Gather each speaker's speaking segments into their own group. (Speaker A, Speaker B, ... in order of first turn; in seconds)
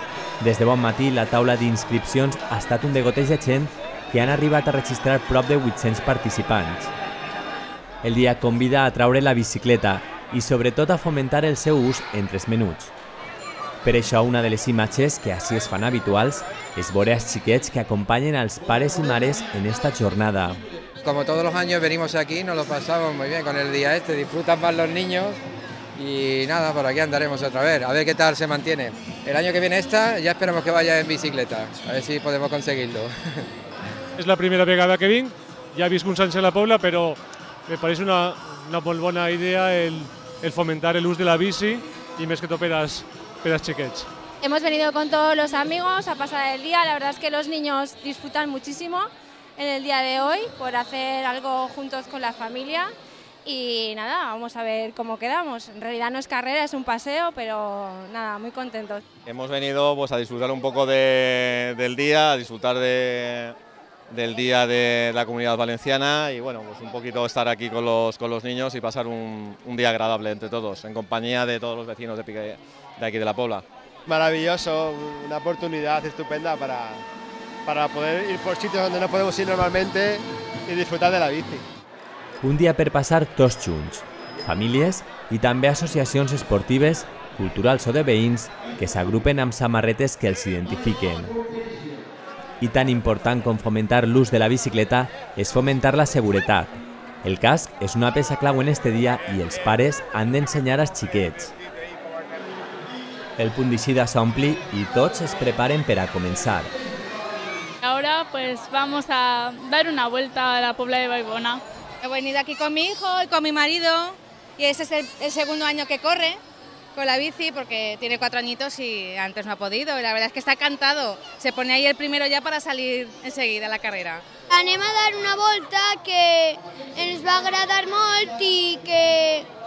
Speaker A: 0.4-6.9, 8.0-12.9, 13.8-20.6, 82.4-91.3, 92.6-101.5, 103.4-106.7
Speaker B: 21.0-25.4, 25.9-33.4
Speaker C: 34.2-37.2, 37.7-44.1
Speaker D: 44.4-49.1, 49.6-52.9, 53.5-59.0
Speaker E: 59.3-63.4, 64.1-73.6
Speaker F: 74.1-77.0, 77.7-81.6
Speaker G: 107.8-111.6
Speaker H: 112.0-116.4, 117.0-124.2
Speaker I: 124.5-129.4